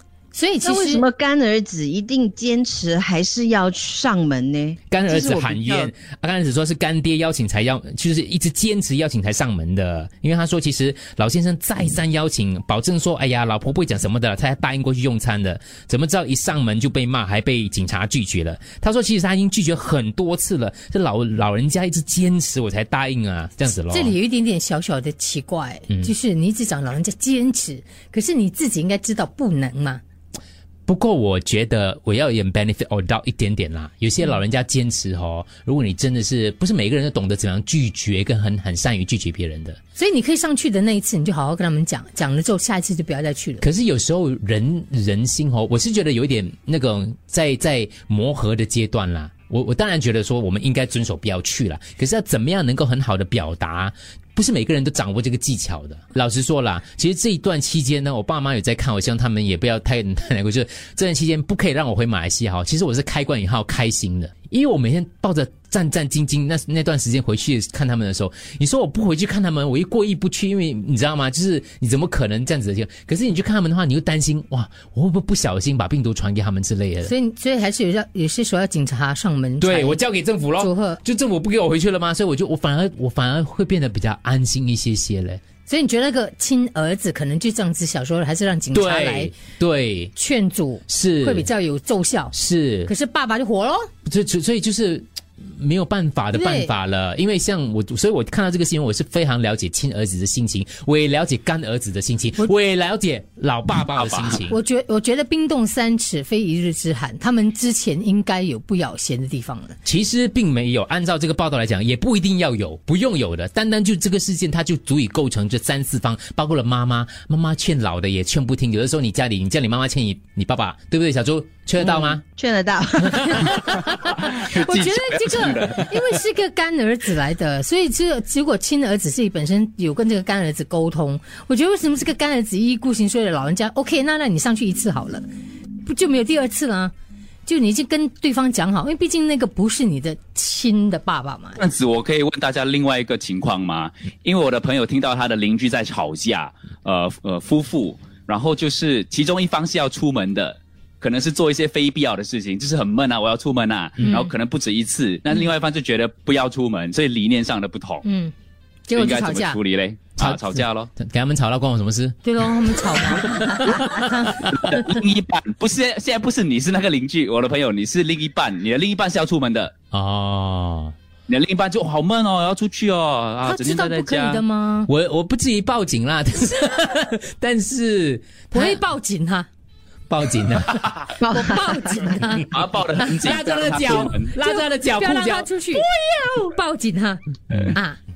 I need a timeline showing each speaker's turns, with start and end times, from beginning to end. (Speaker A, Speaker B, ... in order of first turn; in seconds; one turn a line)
Speaker A: 0.3-1.0
Speaker B: 0.6-5.9
Speaker C: 4.9-24.1
Speaker A: 23.9-30.0
Speaker C: 30.9-39.8
Speaker A: 40.0-43.6
Speaker C: 43.6-77.1
Speaker A: 77.0-80.0
Speaker C: 79.6-85.4
Speaker A: 80.6-81.0
Speaker A: 85.7-89.3
Speaker C: 88.7-90.1
Speaker A: 90.2-92.3
Speaker C: 90.9-91.5
Speaker C: 92.3-92.9
Speaker A: 92.9-93.9
Speaker C: 94.0-104.6
Speaker A: 96.3-96.7
Speaker D: 104.0-104.4
Speaker A: 104.4-109.8
Speaker C: 109.8-122.2
Speaker B: 121.8-123.7
Speaker A: 123.4-135.2
Speaker D: 124.0-126.0
Speaker A: 135.8-136.9
Speaker A: 137.4-141.6
Speaker D: 141.6-158.0
Speaker A: 154.0-154.3
Speaker A: 158.0-158.3
Speaker A: 158.9-159.6
Speaker D: 158.9-160.9
Speaker C: 160.2-163.2
Speaker A: 162.2-165.0
Speaker D: 164.4-169.7
Speaker C: 169.9-170.9
Speaker D: 171.3-174.4
Speaker A: 173.4-174.9
Speaker C: 174.9-178.8
Speaker A: 178.5-179.5
Speaker C: 180.1-180.8
Speaker B: 181.2-181.9
Speaker A: 181.2-182.5
Speaker D: 182.5-184.3
Speaker C: 183.2-186.3
Speaker A: 184.4-187.2
Speaker C: 187.5-187.8